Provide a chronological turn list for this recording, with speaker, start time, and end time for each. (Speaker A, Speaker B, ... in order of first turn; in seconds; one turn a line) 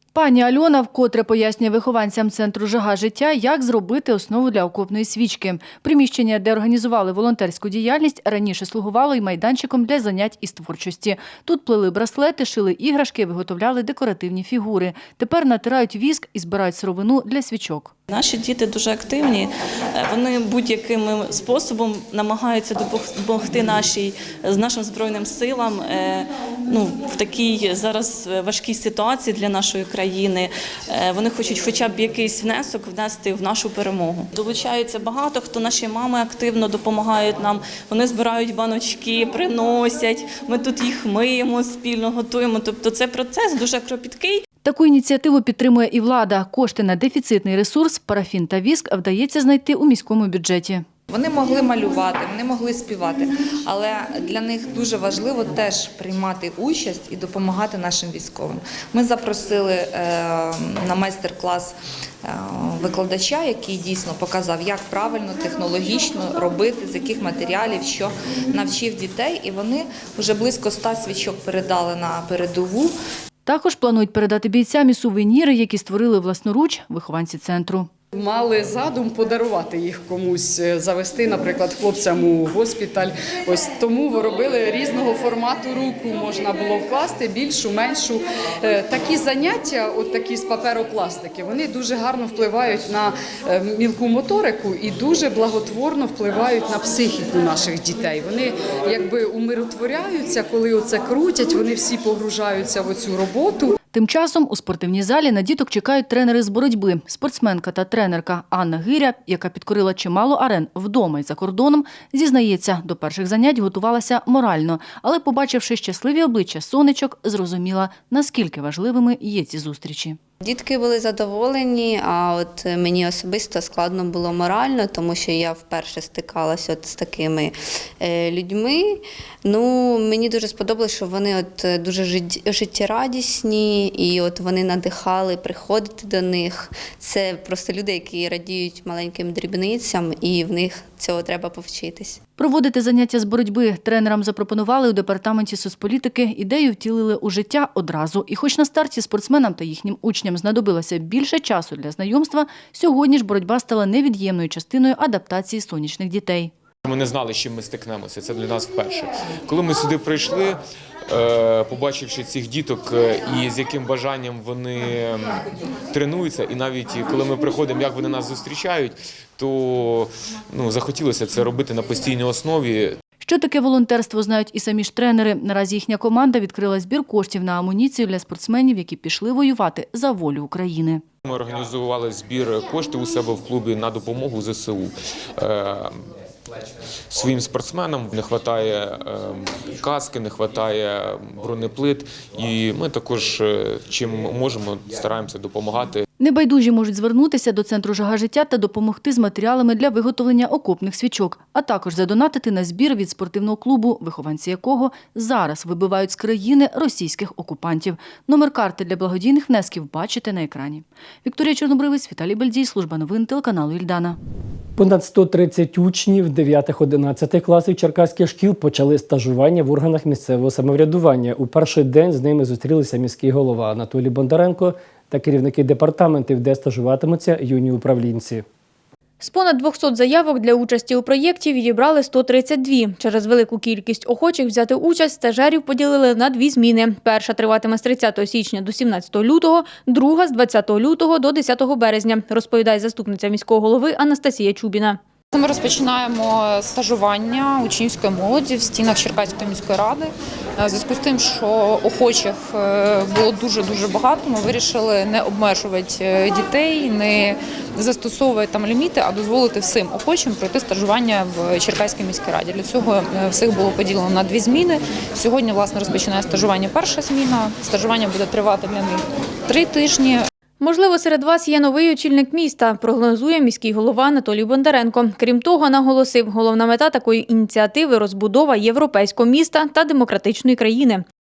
Speaker A: 0.1-17.9
Speaker B: 18.1-44.4
Speaker A: 44.6-50.9
Speaker C: 51.1-72.9
Speaker A: 73.5-77.9
Speaker D: 78.1-103.8
Speaker A: 103.9-120.2
Speaker E: 120.4-142.2
Speaker A: 142.4-156.5
Speaker F: 156.8-173.0
Speaker A: 173.2-181.0
Speaker F: 181.2-186.0
Speaker F: 187.1-196.0
Speaker A: 196.2-214.2
Speaker G: 214.8-228.4
Speaker H: 229.2-245.0
Speaker I: 245.3-270.2
Speaker H: 270.6-281.0